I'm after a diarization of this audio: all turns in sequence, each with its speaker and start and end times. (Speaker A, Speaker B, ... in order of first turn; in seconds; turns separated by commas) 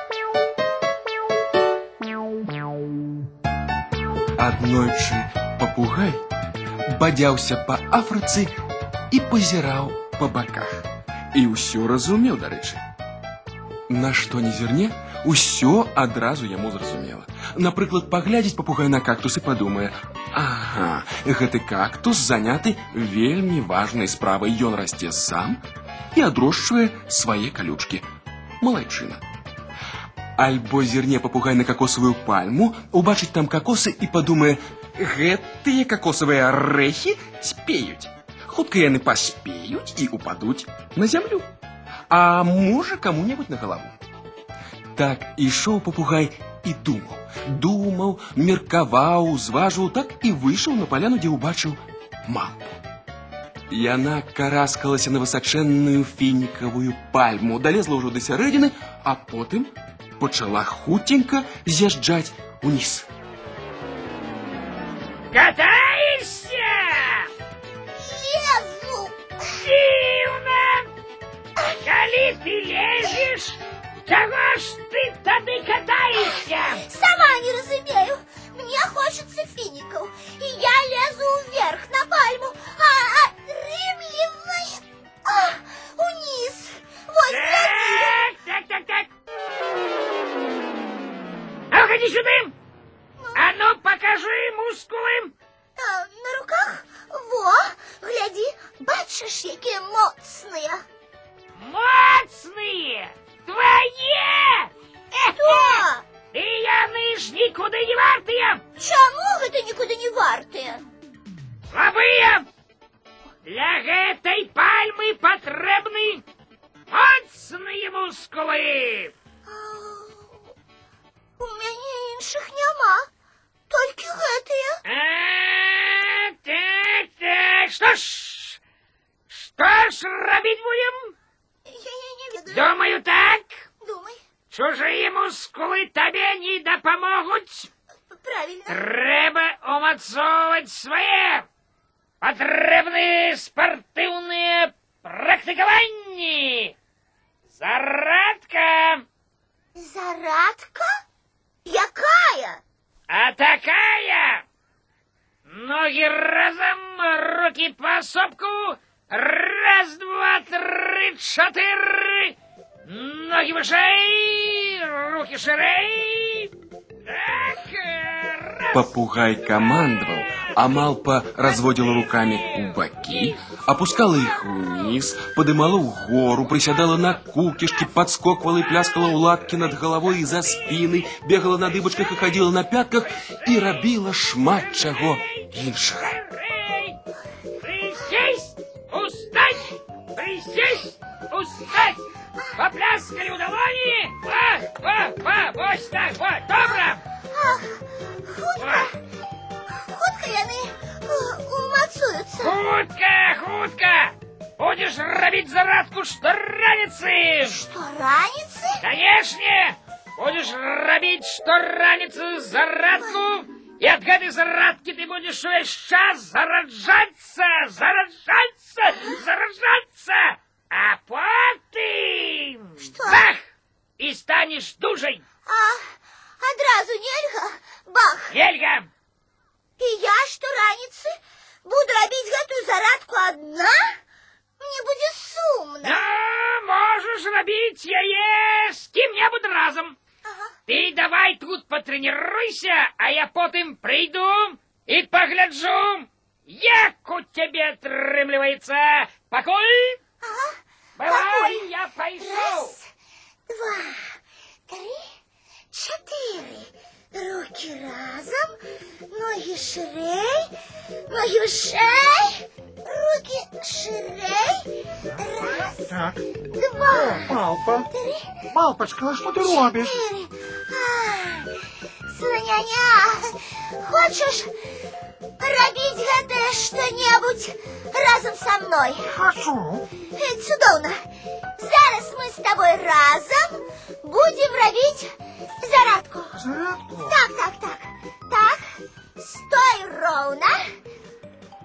Speaker A: 4.4-6.2, Speaker A: 6.9-8.5, Speaker A: 9.1-12.8, Speaker A: 13.9-25.6, Speaker A: 26.1-28.1, Speaker A: 28.6-29.2, Speaker A: 30.4-41.5, Speaker A: 42.1-44.0, Speaker A: 44.9-52.8, Speaker A: 53.7-63.1, Speaker B: 65.3-67.3, Speaker C: 68.0-69.2, Speaker B: 69.5-70.9, Speaker B: 71.8-76.8, Speaker C: 76.2-88.2, Speaker B: 87.3-89.1, Speaker B: 91.7-92.5, Speaker C: 93.2-93.4, Speaker B: 93.3-95.3, Speaker C: 95.8-100.8, Speaker B: 101.5-108.6, Speaker C: 105.3-106.0, Speaker C: 108.8-110.8, Speaker B: 111.7-112.5, Speaker B: 113.4-116.2, Speaker B: 116.9-119.1, Speaker C: 119.5-120.3, Speaker C: 121.4-123.1, Speaker C: 123.7-124.8, Speaker B: 124.8-128.6, Speaker B: 129.3-131.1, Speaker C: 131.7-132.7, Speaker B: 132.5-133.6, Speaker C: 133.8-134.2, Speaker B: 134.5-137.7, Speaker C: 138.1-138.8, Speaker B: 138.7-141.5, Speaker B: 142.2-146.7, Speaker B: 147.5-149.0, Speaker C: 149.7-150.9, Speaker C: 151.6-152.6, Speaker B: 153.1-154.4, Speaker B: 155.4-162.3, Speaker B: 162.9-166.5, Speaker B: 167.1-168.9, Speaker A: 168.7-186.1, Speaker B: 171.5-173.5, Speaker B: 180.4-180.8, Speaker B: 183.0-183.9, Speaker B: 184.5-187.0, Speaker B: 187.6-192.0, Speaker B: 192.6-197.0, Speaker C: 196.6-199.0, Speaker B: 198.6-198.9, Speaker C: 199.7-202.6, Speaker B: 202.4-207.6, Speaker C: 207.4-208.8, Speaker B: 208.8-223.4, Speaker C: 222.8-223.2, Speaker B: 224.0-225.2, Speaker C: 225.4-228.3, Speaker B: 228.3-228.9, Speaker C: 229.8-234.0, Speaker C: 234.6-236.0, Speaker B: 235.8-239.9, Speaker C: 240.2-240.5, Speaker B: 240.7-250.0, Speaker C: 250.2-251.7, Speaker B: 251.0-252.7, Speaker C: 252.2-252.8, Speaker C: 253.5-254.2, Speaker C: 254.7-255.1, Speaker C: 255.7-258.6, Speaker C: 259.1-260.5, Speaker C: 261.1-265.9, Speaker D: 265.8-266.2, Speaker C: 266.5-267.3, Speaker D: 266.9-267.9, Speaker C: 267.9-268.4, Speaker D: 268.5-269.9, Speaker C: 269.3-271.5, Speaker C: 272.1-274.5, Speaker C: 275.4-279.1, Speaker D: 279.1-279.9, Speaker C: 280.1-281.1, Speaker C: 281.6-286.4, Speaker D: 286.3-287.2, Speaker C: 287.0-288.6, Speaker C: 289.2-290.7